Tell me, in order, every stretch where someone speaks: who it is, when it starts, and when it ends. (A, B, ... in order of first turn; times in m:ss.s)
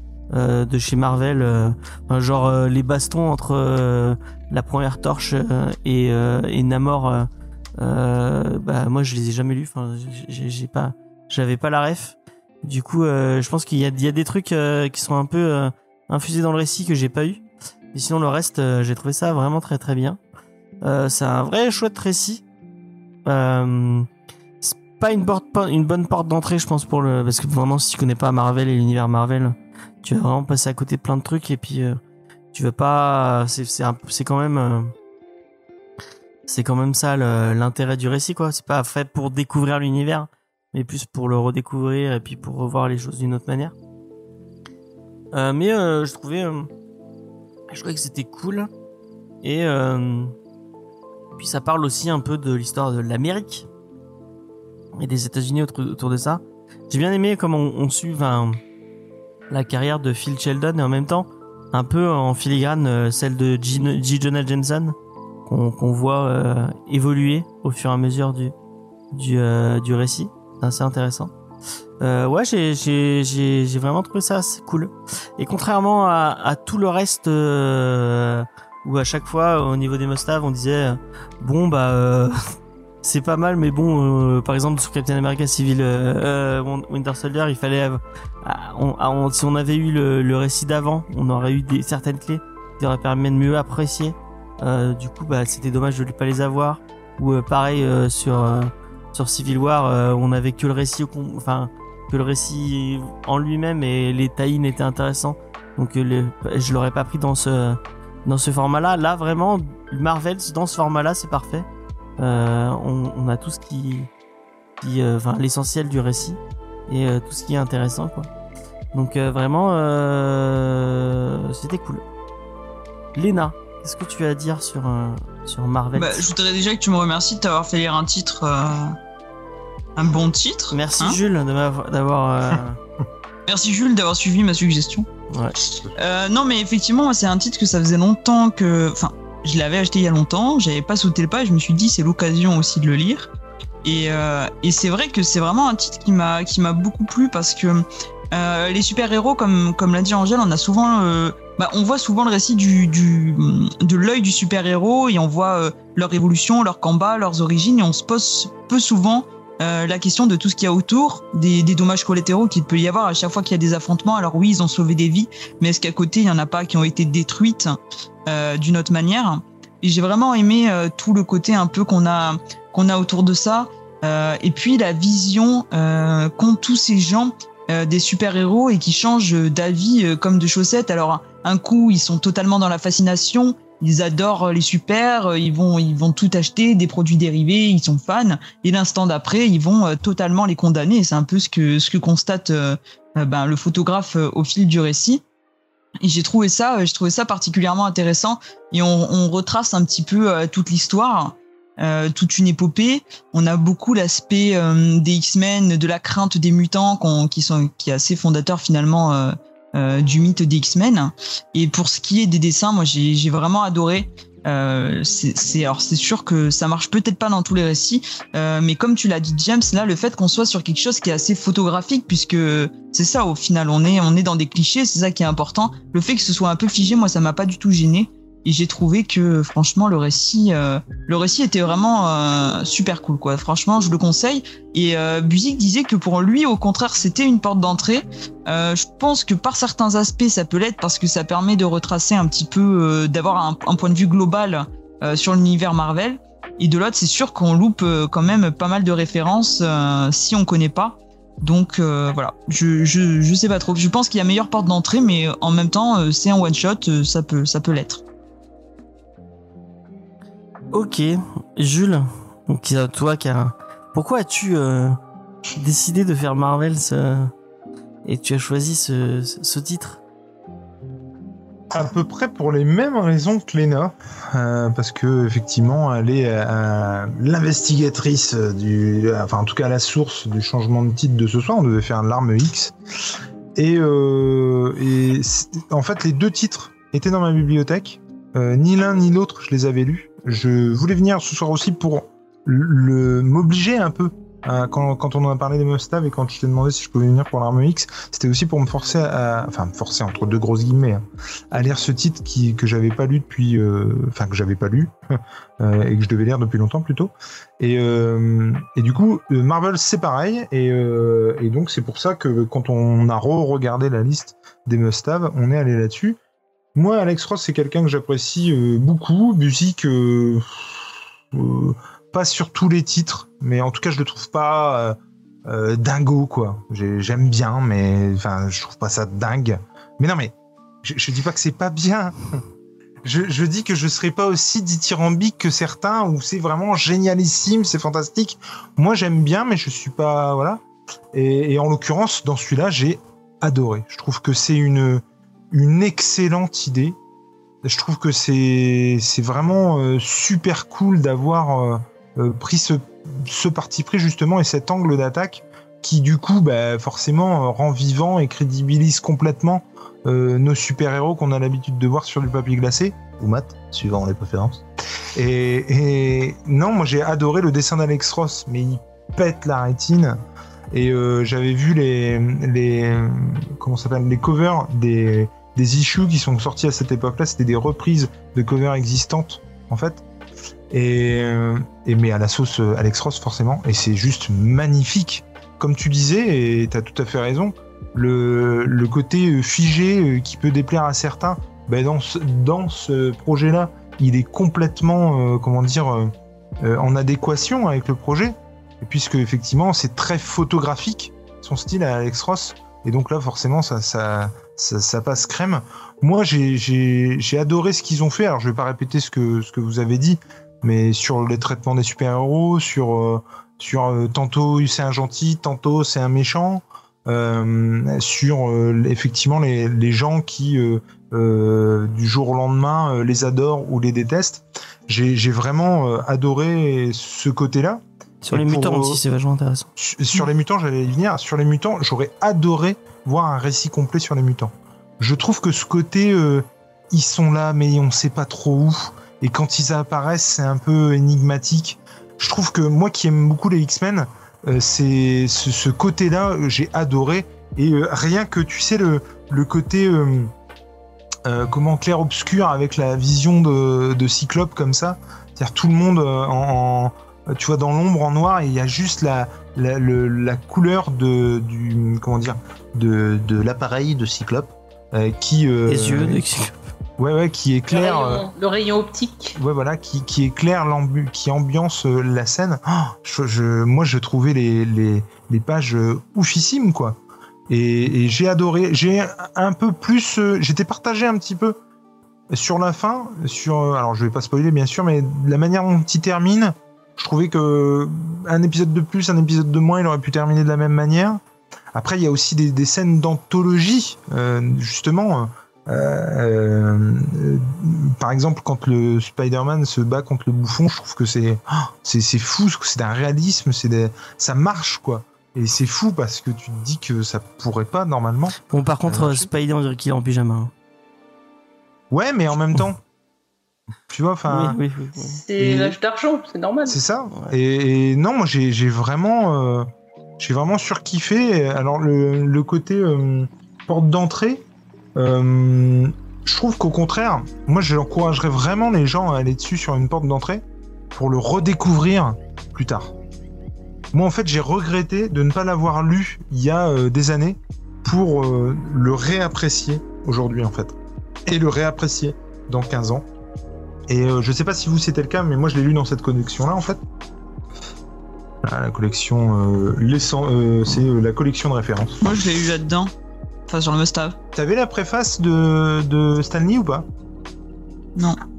0:00.3-0:20.2 A
0:20.8-0:22.4 A
0:23.2-0:24.1 A
0:24.6-0:32.0 A
0:32.5-0:34.9 A
0:36.4-0:43.7 A
0:45.3-0:46.7 A
0:47.7-0:48.7 A
0:49.4-0:50.3 A
0:51.4-0:53.7 A
0:54.9-0:58.6 A
0:59.5-1:04.9 A
1:05.4-1:08.5 A
1:09.1-1:11.3 A
1:12.0-1:22.3 A
1:23.0-1:51.7 A
1:52.2-1:54.1 A
1:54.8-1:58.3 A
1:58.9-2:02.0 A
2:03.1-2:06.2 A
2:05.9-2:09.0 B
2:10.0-2:11.2 B
2:10.7-2:12.8 A
2:13.5-2:15.1 B
2:15.3-2:15.6 A
2:15.8-2:23.3 B
2:23.8-3:15.2 B
3:16.0-4:18.0 B
4:20.7-4:25.0 A
4:25.6-4:27.3 A
4:28.0-4:30.0 A
4:31.7-4:42.8 C
4:43.6-5:16.2 C
5:16.7-5:32.4 C
5:33.0-5:40.6 C
5:41.1-5:47.0 C
5:47.6-6:04.6 C
6:05.1-6:10.2 C
6:10.7-6:20.0 C
6:20.7-7:09.0 C
7:08.2-7:09.7 A
7:09.8-7:30.3 C
7:31.2-7:48.3 C
7:45.7-7:46.6 A
7:47.7-7:49.4 D
7:49.4-8:01.6 C
8:02.3-8:11.2 C
8:11.7-8:29.3 C
8:28.5-8:30.5 A
8:31.9-8:32.8 C
8:33.9-8:34.6 C
8:34.3-8:35.2 A
8:35.0-8:36.8 D
8:35.4-8:35.8 C
8:36.7-8:39.7 C
8:40.2-8:44.4 C
8:45.0-8:52.9 C
8:53.9-9:03.0 C
9:03.9-9:06.8 C
9:08.4-9:12.0 C
9:12.0-9:12.9 B
9:13.5-9:14.2 B
9:14.3-9:16.9 C